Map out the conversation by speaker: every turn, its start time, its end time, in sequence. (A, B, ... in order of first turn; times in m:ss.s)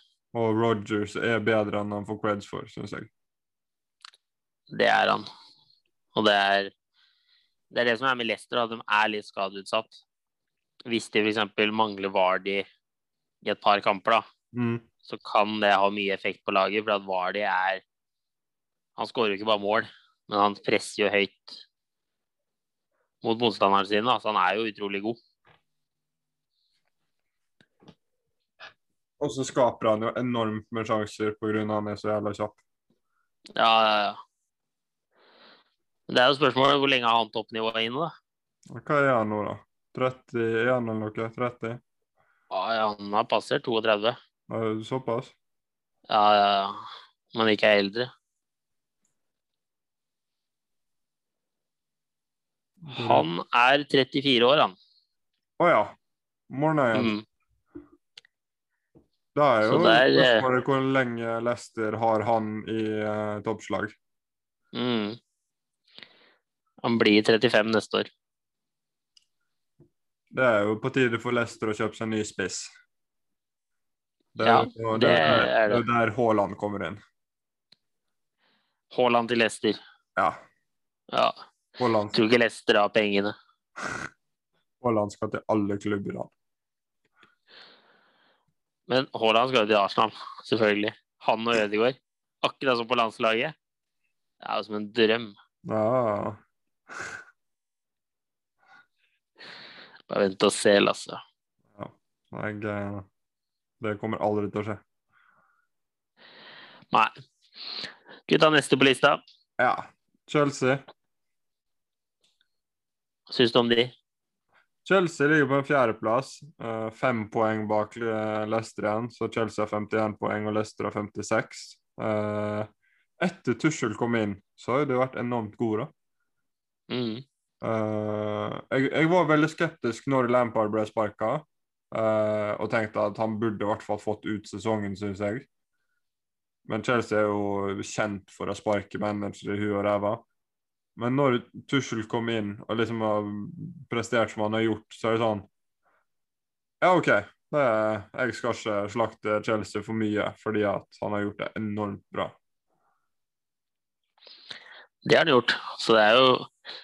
0:00.3-0:03.1 A
0:04.7-0:05.2 B
0:06.1-0:06.7 B
0:07.7-0:10.0 B
0:10.9-0:12.6 B
0:13.4-0:14.2 B
0:14.5-0:14.8 A
0:15.1-0:17.8 B
0:19.0-0:21.6 B
0:23.2-0:25.2 B
0:29.2-0:32.6 A
0:33.6-0:34.2 B
0:36.1-0:38.1 B
0:38.7-0:41.8 A
0:42.5-0:44.2 B
0:44.5-0:45.3 A
0:46.1-0:46.8 B
0:47.3-0:48.1 B
0:52.8-0:53.2 A
0:52.9-0:54.7 B
0:55.6-0:55.9 A
0:56.5-0:57.1 A
0:56.9-0:57.2 B
0:59.3-1:04.0 A
0:59.6-1:00.4 B
1:04.7-1:05.2 B
1:06.8-1:08.1 B
1:10.3-1:12.7 A
1:14.3-1:17.0 A
1:14.4-1:15.8 B
1:18.9-1:19.8 B
1:21.8-1:22.1 A
1:22.1-1:23.3 B
1:24.8-1:26.3 A
1:28.9-1:33.5 B
1:34.4-1:35.3 B
1:35.6-1:36.4 A
1:40.1-1:41.2 B
1:41.7-1:43.0 A
1:43.8-1:44.8 A
1:48.3-1:49.2 B
1:49.6-1:50.8 A
1:53.3-1:53.9 B
1:54.8-2:02.7 A
2:03.2-2:05.9 A
2:06.9-2:07.2 B
2:07.6-2:15.4 A
2:16.6-2:20.2 A
2:21.0-2:25.5 A
2:26.8-2:32.4 A
2:35.0-2:36.5 B